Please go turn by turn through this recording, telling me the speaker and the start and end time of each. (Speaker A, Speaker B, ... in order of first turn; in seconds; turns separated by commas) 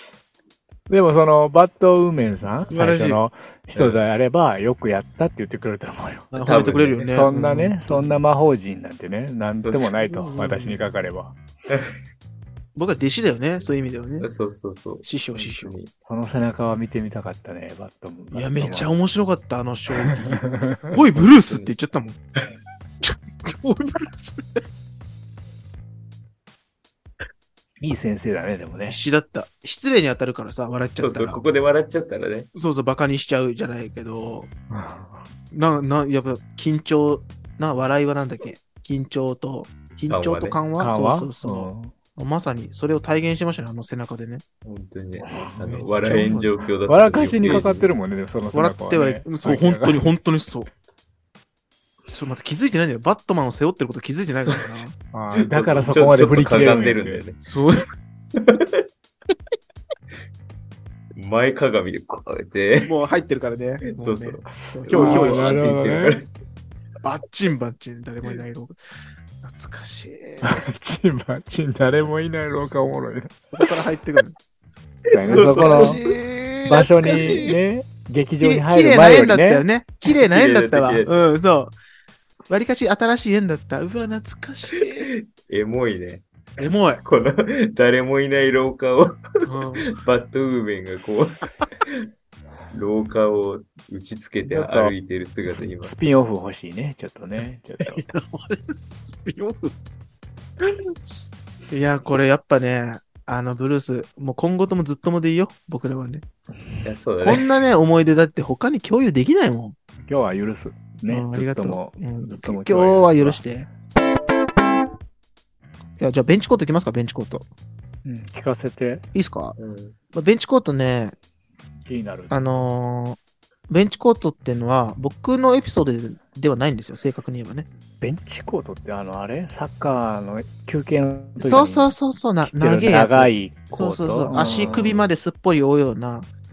Speaker A: 0.9-6.3, Speaker B: 2.7-3.2, Speaker C: 3.7-4.0, Speaker B: 6.3-7.8, Speaker C: 6.4-7.2, Speaker A: 7.1-11.4, Speaker C: 9.5-10.0, Speaker B: 10.2-10.8, Speaker B: 12.7-14.3, Speaker C: 14.2-15.9, Speaker B: 15.0-15.7, Speaker A: 16.0-18.9, Speaker B: 18.3-22.2, Speaker A: 20.5-20.9, Speaker C: 21.1-21.7, Speaker B: 23.0-24.6, Speaker A: 27.8-29.0, Speaker B: 28.9-31.4, Speaker C: 31.0-32.5, Speaker B: 32.5-34.5, Speaker A: 34.7-35.2, Speaker B: 35.5-44.4, Speaker C: 40.1-40.6, Speaker A: 40.8-41.9, Speaker C: 44.6-47.9, Speaker A: 45.3-50.1, Speaker B: 45.6-46.3, Speaker B: 48.5-50.7, Speaker B: 52.1-54.9, Speaker C: 54.4-54.8, Speaker A: 55.1-57.2, Speaker C: 55.4-57.4, Speaker B: 57.5-57.8, Speaker C: 58.3-58.8, Speaker C: 61.1-62.9, Speaker B: 62.8-66.1, Speaker C: 63.9-66.3, Speaker A: 64.8-66.2, Speaker B: 67.0-68.8, Speaker B: 69.4-70.6, Speaker A: 70.4-73.7, Speaker B: 73.5-74.3, Speaker A: 75.1-76.0, Speaker C: 75.1-76.1, Speaker B: 75.2-77.5, Speaker A: 76.6-79.6, Speaker C: 77.2-77.5, Speaker B: 78.4-81.8, Speaker C: 80.2-81.1, Speaker B: 82.5-85.1, Speaker C: 84.8-89.2, Speaker B: 86.6-87.0, Speaker B: 89.5-90.0, Speaker C: 89.8-92.0, Speaker C: 92.7-95.9, Speaker A: 94.4-94.9, Speaker A: 95.5-98.0, Speaker B: 97.8-99.7, Speaker B: 100.6-100.9, Speaker B: 101.7-106.2, Speaker C: 106.8-107.5, Speaker B: 107.2-109.8, Speaker A: 110.0-113.4, Speaker B: 111.1-113.7, Speaker B: 116.0-117.5, Speaker A: 118.0-119.0, Speaker B: 119.1-119.5, Speaker C: 119.6-120.0, Speaker B: 120.1-121.2, Speaker A: 121.8-122.4, Speaker B: 122.3-127.7, Speaker A: 128.0-135.1, Speaker B: 131.4-136.3